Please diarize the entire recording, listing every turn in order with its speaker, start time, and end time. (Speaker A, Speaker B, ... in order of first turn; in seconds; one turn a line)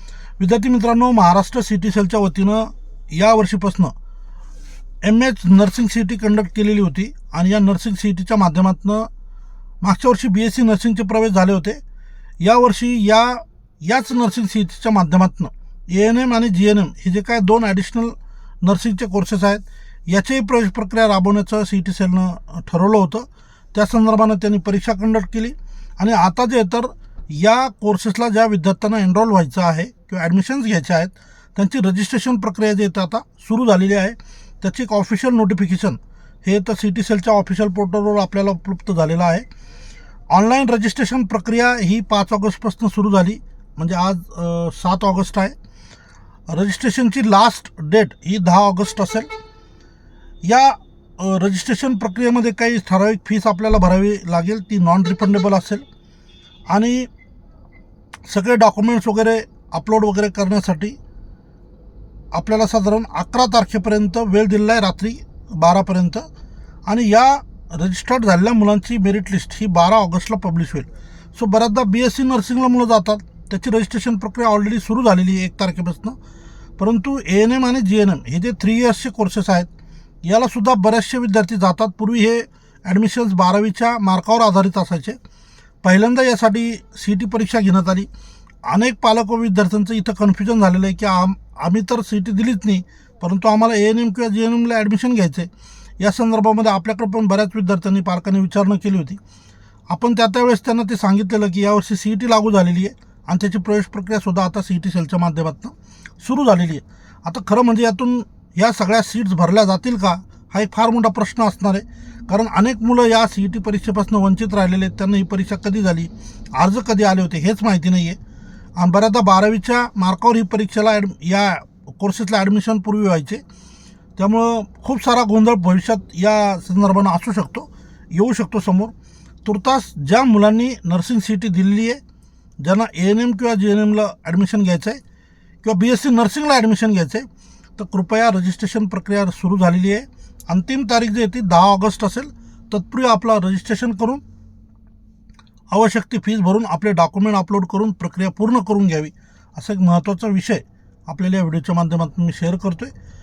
Speaker A: 0.4-3.9
Speaker A: 5.0-9.1
Speaker A: 9.8-11.8
Speaker A: 12.4-39.5
Speaker A: 40.3-45.5
Speaker A: 46.5-49.3
Speaker A: 50.4-55.8
Speaker A: 56.7-57.1
Speaker A: 58.3-61.0
Speaker A: 62.3-66.3
Speaker A: 66.9-76.2
Speaker A: 76.8-79.7
Speaker A: 80.2-85.2
Speaker A: 85.8-88.1
Speaker A: 88.7-99.2
Speaker A: 99.9-118.2
Speaker A: 118.8-123.4
Speaker A: 124.2-128.9
Speaker A: 129.4-132.0
Speaker A: 132.6-135.0
Speaker A: 135.6-137.3
Speaker A: 137.8-144.2
Speaker A: 145.7-152.9